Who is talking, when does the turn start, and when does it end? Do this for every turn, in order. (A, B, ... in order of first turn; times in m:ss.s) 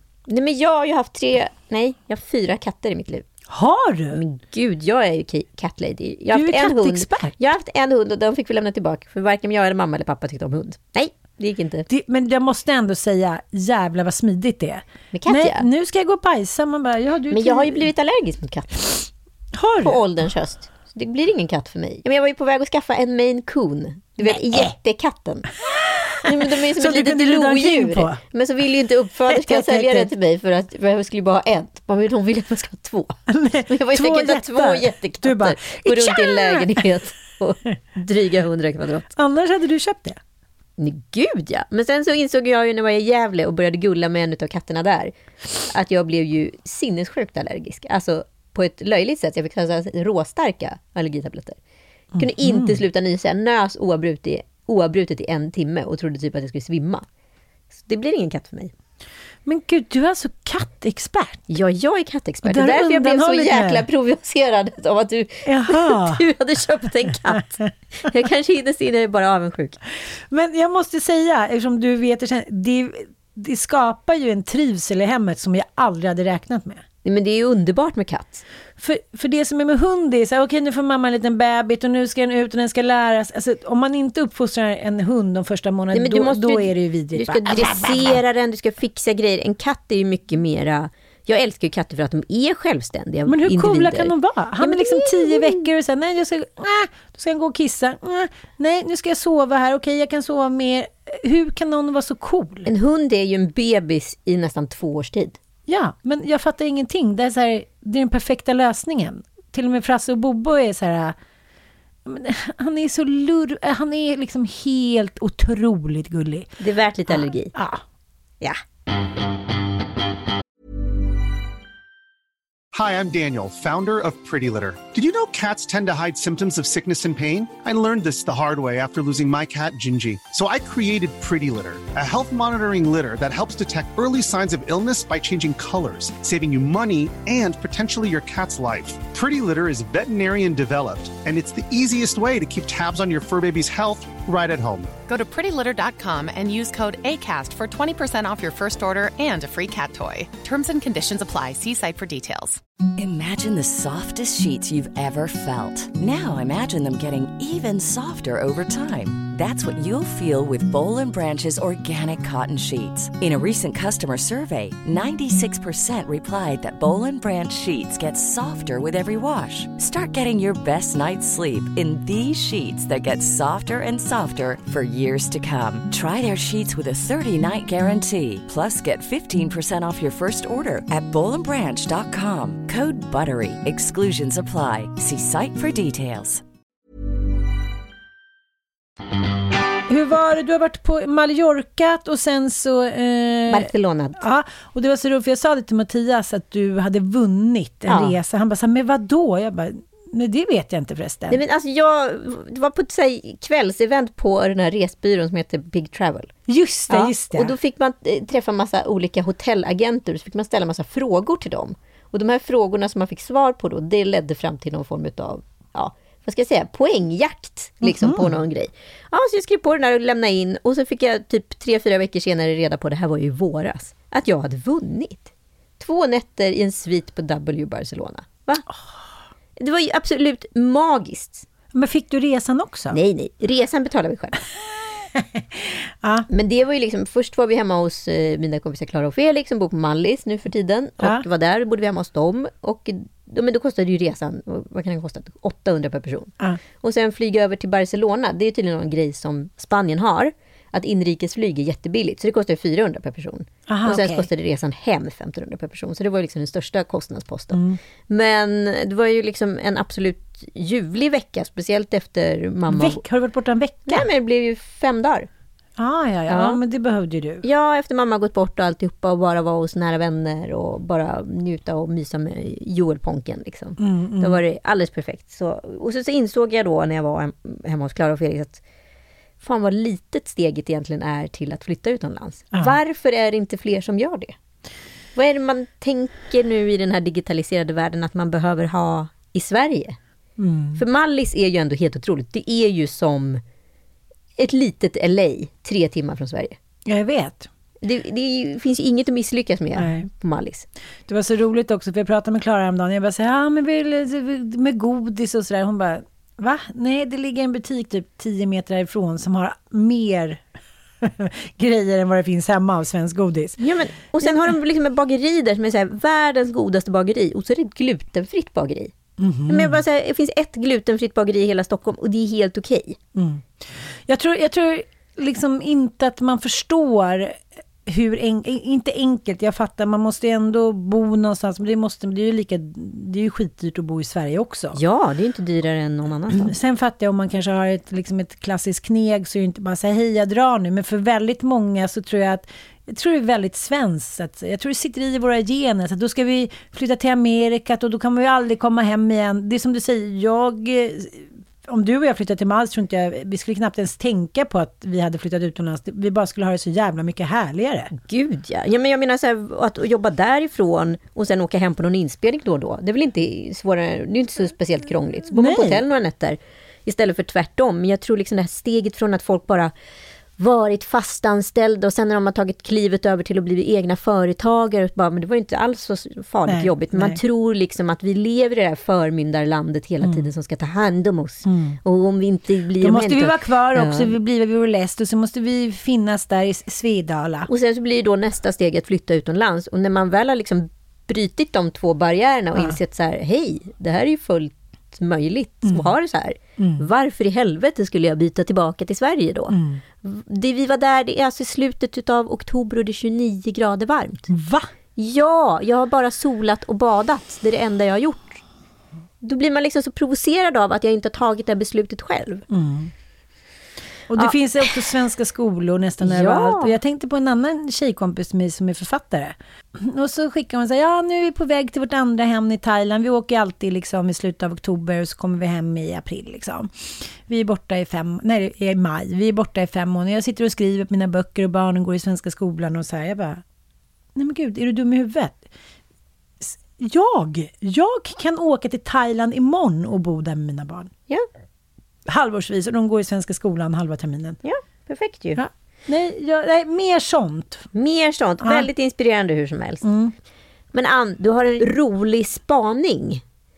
0:00.3-0:03.2 A
0:03.5-0:04.2 B
0:04.1-0:11.9 A
0:06.3-0:07.3 B
0:11.9-0:17.9 B
0:15.1-0:15.6 A
0:17.3-0:19.1 A
0:19.5-0:20.0 B
0:19.8-0:25.5 A
0:24.3-0:24.7 B
0:25.9-0:28.2 B
0:26.2-0:39.1 A
0:29.3-0:30.1 B
0:33.3-0:36.8 B
0:39.2-0:40.2 B
0:40.8-0:45.1 A
0:45.6-0:51.6 A
0:52.1-0:52.8 B
0:52.2-0:57.0 A
0:57.7-0:58.7 A
0:59.4-1:01.4 B
1:01.5-1:09.8 A
1:02.4-1:03.8 B
1:05.4-1:06.2 B
1:10.3-1:16.8 B
1:17.0-1:18.4 A
1:18.8-1:28.2 B
1:25.9-1:35.6 A
1:33.3-1:42.7 B
1:42.6-1:45.4 A
1:45.7-1:51.2 B
1:52.0-1:56.5 B
1:56.6-1:57.5 A
1:57.1-1:57.8 B
2:02.7-2:24.9 C
2:25.1-2:32.6 D
2:33.0-3:06.4 E
3:09.9-3:21.4 B
3:13.5-3:14.2 A
3:17.9-3:18.2 A
3:21.3-3:26.3 A
3:26.5-3:27.5 B
3:26.9-3:48.6 A
3:37.8-3:38.3 B
3:49.6-3:51.4 A
3:51.7-3:53.0 B
3:52.9-3:54.4 A
3:55.1-3:56.3 B
3:56.3-4:23.0 A
4:13.7-4:14.3 B
4:17.5-4:17.8 B
4:22.7-4:24.1 B
4:23.9-4:25.3 A
4:25.8-4:27.4 B
4:26.3-4:26.6 A
4:27.4-4:38.6 A
4:33.8-4:34.4 B
4:39.4-4:44.3 A
4:45.1-4:50.0 A
4:50.4-4:50.8 B
4:50.8-4:53.4 A
4:54.4-4:56.6 A
4:56.8-4:57.5 B
4:57.8-5:00.6 A
4:59.8-5:00.0 B
5:01.1-5:10.4 B
5:11.0-5:13.6 B
5:13.6-5:18.9 A
5:14.2-5:14.5 B
5:19.2-5:19.8 B
5:19.5-5:23.0 A
5:23.1-5:23.4 B
5:24.1-5:34.8 B
5:34.7-5:36.5 A
5:36.3-5:57.9 B
5:57.9-6:09.7 A
6:05.3-6:05.8 B
6:10.4-6:24.1 A
6:16.5-6:17.2 B
6:20.0-6:20.3 B
6:21.4-6:21.8 B
6:22.8-6:27.5 B
6:27.5-6:44.3 A
6:35.6-6:35.9 B
6:36.6-6:36.8 B
6:39.5-6:39.8 B
6:44.3-6:44.7 B
6:45.0-6:48.4 A
6:49.2-6:52.4 A
6:52.5-6:52.9 B
6:54.1-7:06.7 B
6:54.1-6:54.7 A
6:56.0-6:56.7 A
7:07.2-7:13.4 B
7:14.1-7:15.4 B
7:16.4-7:20.9 B
7:22.1-7:24.4 B
7:24.4-7:25.4 A
7:25.3-7:27.7 B
7:27.7-7:29.8 A
7:28.4-7:28.7 B
7:29.8-7:30.1 B
7:30.7-7:33.2 A